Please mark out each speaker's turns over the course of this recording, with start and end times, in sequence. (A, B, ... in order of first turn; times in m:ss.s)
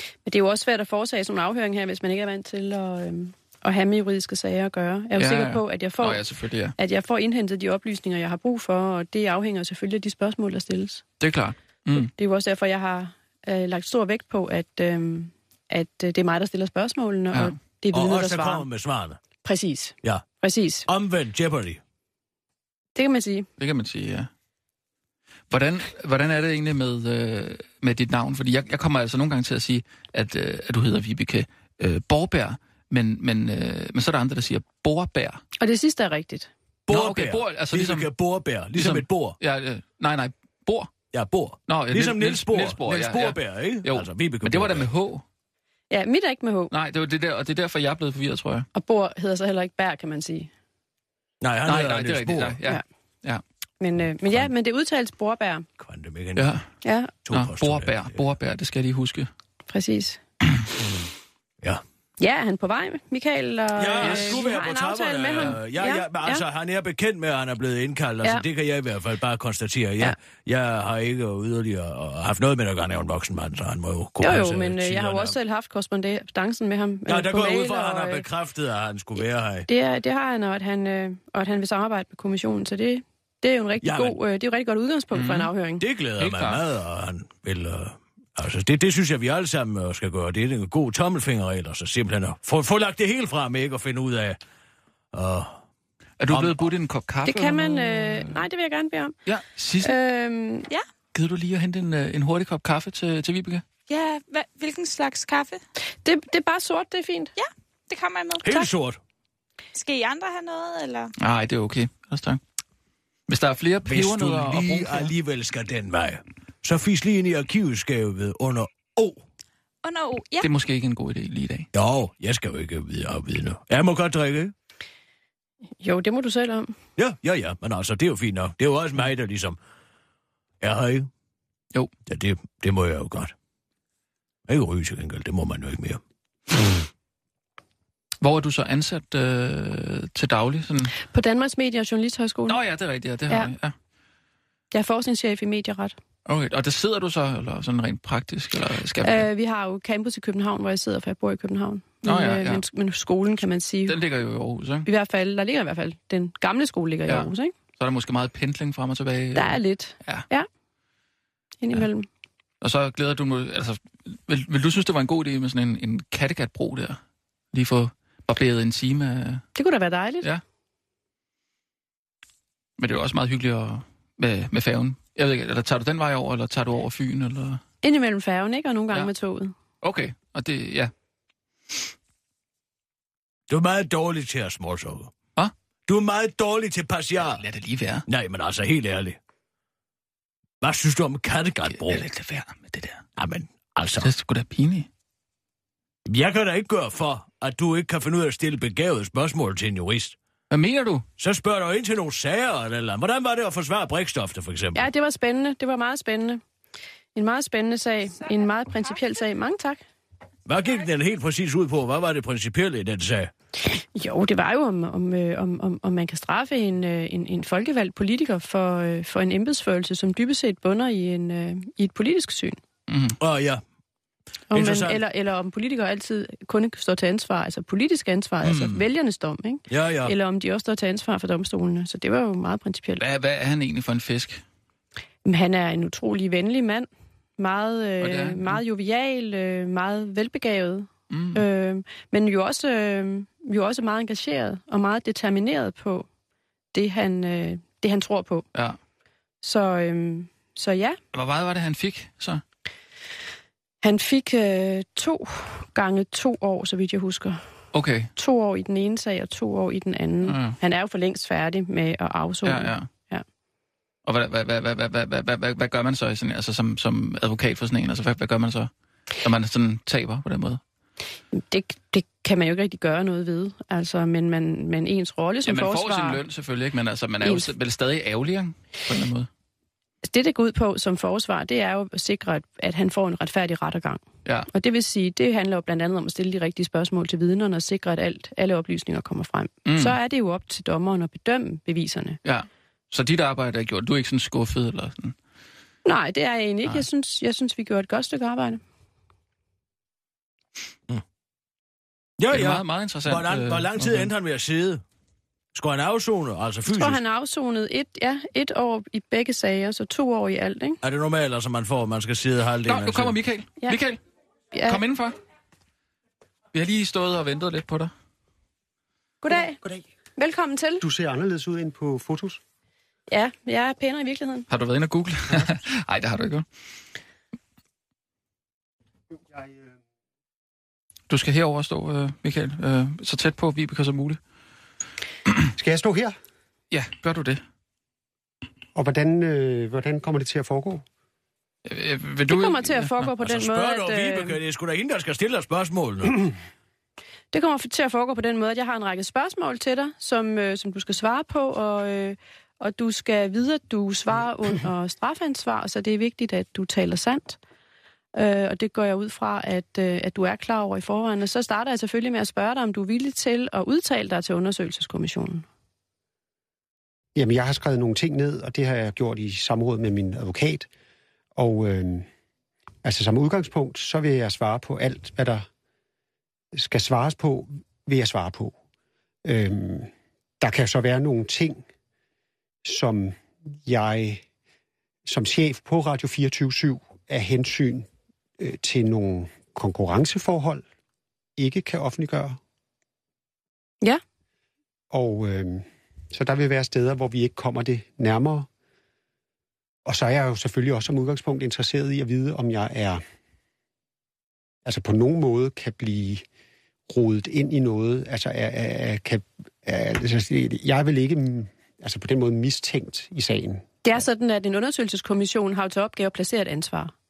0:00.2-0:06.2 A
0:05.2-0:06.8 B
0:06.8-0:11.0 A
0:11.2-0:12.1 B
0:12.0-0:18.7 A
0:17.9-0:19.2 C
0:19.4-0:20.9 A
0:20.9-0:21.8 C
0:23.0-0:23.5 A
0:23.6-0:24.3 B
0:25.5-0:35.4 B
0:35.6-0:36.5 A
0:36.9-0:39.4 C
0:36.9-0:38.1 B
0:38.8-0:40.9 B
0:41.1-0:44.9 C
0:41.7-0:45.2 B
0:45.9-0:46.7 A
0:46.7-0:48.7 B
0:48.7-0:50.5 A
0:51.4-0:52.6 C
0:51.7-0:53.4 B
0:53.8-0:55.7 A
0:55.8-0:56.6 C
0:56.4-0:56.6 B
0:56.8-0:57.1 A
0:57.3-0:58.2 C
0:57.3-0:59.3 B
0:59.7-1:00.2 A
1:02.2-1:06.4 A
1:03.8-1:15.4 C
1:04.0-1:04.5 B
1:14.2-1:18.3 A
1:17.1-1:19.7 C
1:19.7-1:25.8 A
1:23.8-1:24.2 C
1:25.1-1:25.5 B
1:25.8-1:34.4 C
1:26.2-1:26.6 B
1:35.1-1:35.6 C
1:36.2-1:38.4 B
1:36.3-1:36.6 C
1:37.3-1:39.2 A
1:39.3-1:40.0 B
1:39.8-1:40.7 A
1:41.1-1:43.6 B
1:43.9-1:45.6 D
1:46.0-1:47.3 A
1:47.4-1:48.7 D
1:48.4-1:49.0 C
1:49.8-1:51.1 D
1:51.2-1:52.4 B
1:53.3-1:55.1 B
1:53.8-1:59.2 C
1:59.8-2:00.5 D
2:00.4-2:01.7 B
2:01.7-2:04.5 C
2:05.8-2:06.8 A
2:07.0-2:09.6 C
2:10.6-2:11.1 C
2:12.1-2:13.3 C
2:14.5-2:16.0 C
2:16.5-2:16.8 C
2:18.2-2:21.0 B
2:21.1-2:22.6 A
2:22.5-2:23.7 B
2:24.7-2:26.0 A
2:26.3-2:29.3 B
2:29.0-2:34.0 A
2:32.0-2:32.6 B
2:33.9-2:34.9 B
2:34.8-2:37.5 A
2:37.1-2:40.2 B
2:39.4-2:40.5 A
2:41.6-2:42.1 A
2:42.6-2:47.0 B
2:47.5-2:49.4 B
2:49.6-2:50.3 A
2:52.8-2:57.6 B
2:57.8-2:59.5 A
2:59.8-3:00.9 B
3:03.5-3:05.1 C
3:05.9-3:07.4 C
3:07.2-3:08.0 B
3:08.1-3:09.2 C
3:10.6-3:12.0 C
3:11.7-3:13.0 B
3:13.2-3:14.1 C
3:14.0-3:14.9 B
3:16.1-3:20.2 C
3:20.5-3:21.1 B
3:21.2-3:24.9 C
3:24.8-3:26.4 A
3:27.2-3:29.8 A
3:30.5-3:33.3 C
3:33.7-3:42.6 A
3:42.9-3:43.2 B
3:43.2-3:43.6 C
3:44.5-3:53.0 A
3:44.5-3:45.0 C
3:49.7-3:50.1 C
3:53.0-3:54.4 B
3:55.2-4:06.1 A
3:58.0-3:58.6 B
4:01.1-4:01.4 B
4:06.7-4:08.5 A
4:09.4-4:11.0 A
4:11.1-4:12.4 B
4:13.8-4:17.4 A
4:17.7-4:18.1 B
4:18.2-4:23.2 A
4:20.2-4:20.6 B
4:22.4-4:22.9 B
4:24.1-4:30.6 B
4:31.3-4:36.2 A
4:35.4-4:39.3 B
4:37.2-4:37.5 A
4:40.0-4:52.2 A
4:49.6-4:50.0 B
4:52.2-4:55.2 B
4:55.8-4:58.6 A
5:02.2-5:04.8 C
5:02.3-5:04.1 B
5:05.6-5:07.0 C
5:06.7-5:10.8 A
5:10.8-5:13.2 C
5:12.6-5:14.0 B
5:14.5-5:14.8 A
5:14.7-5:15.2 B
5:16.5-5:17.9 B
5:19.2-5:19.6 A
5:20.2-5:20.8 A
5:20.8-5:22.4 E
5:23.1-5:24.5 A
5:24.5-5:26.4 B
5:31.1-5:34.2 B
5:35.6-5:36.2 E
5:36.7-5:37.4 B
5:38.8-5:40.8 E
5:41.7-5:43.1 B
5:42.3-5:44.4 A
5:43.2-5:46.3 C
5:47.3-5:57.4 A
5:58.2-6:05.5 A
6:07.2-6:10.7 E
6:11.4-6:12.1 E
6:12.8-6:15.5 E
6:16.5-6:18.6 E
6:19.2-6:21.6 E
6:22.6-6:24.2 E
6:25.0-6:27.9 E
6:28.4-6:30.6 E
6:31.4-6:32.4 E
6:34.9-6:38.5 E
6:39.8-6:43.0 E
6:44.6-6:46.2 E
6:46.9-6:53.6 E
6:53.8-6:56.9 A